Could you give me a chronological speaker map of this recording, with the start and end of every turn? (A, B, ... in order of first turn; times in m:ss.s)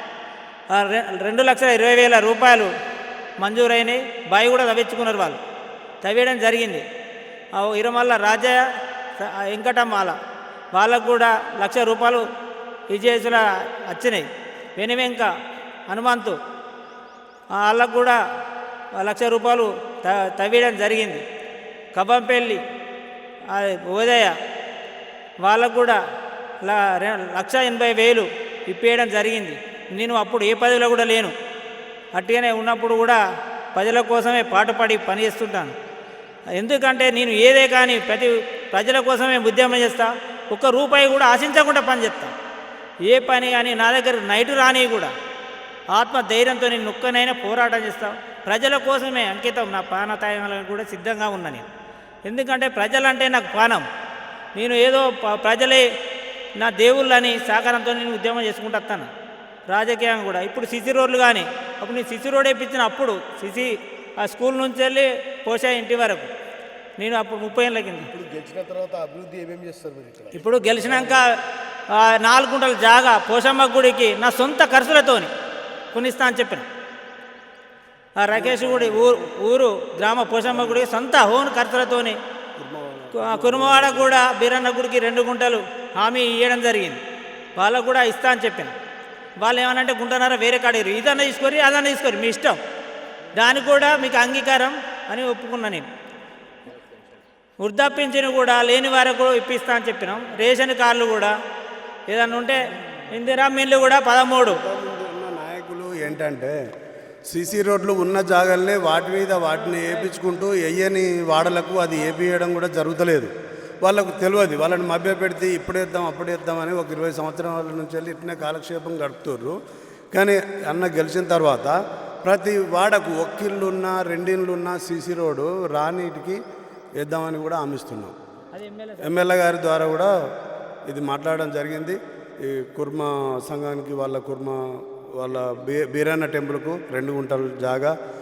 0:00.7-0:02.7 A
0:03.4-0:05.4 A
0:06.0-0:06.8 A
0:07.6-0:08.6 A
0:09.2-0:10.2 A
0:10.8-0:12.2 A
0:12.9-0:14.3 A
0:14.8-0:15.3 A
0:15.9-0:16.4 A
0:17.6-0:18.2 A
0:19.0-0:21.2 A
0:21.9-0:22.6 A
0:23.5-0:24.3 A
0:25.4-0:26.0 A
0:26.6-0:31.3 A
0:32.2-0:33.2 A
0:33.8-0:35.8 A
0:36.6-0:42.3 A
0:43.1-0:45.1 A
0:46.0-0:51.7 A
0:52.3-0:53.8 A
0:54.6-0:55.8 A
0:56.6-0:59.1 A
0:59.7-1:03.7 A
1:04.2-1:06.3 A
1:07.0-1:08.1 A
1:08.1-1:11.1 B
1:10.3-1:11.3 A
1:12.0-1:15.3 A
1:15.9-1:16.7 A
1:18.2-1:22.2 A
1:22.6-1:23.6 C
1:23.2-1:27.0 A
1:27.6-1:28.7 A
1:29.4-1:32.6 A
1:33.4-1:35.9 A
1:37.6-1:41.3 A
1:42.1-1:42.6 A
1:43.1-1:44.6 A
1:44.4-1:46.5 C
1:47.3-1:53.3 C
1:53.8-1:59.6 C
2:00.1-2:06.4 C
2:07.0-2:08.1 C
2:08.6-2:09.2 A
2:09.0-2:10.1 C
2:10.9-2:14.6 C
2:15.2-2:17.9 C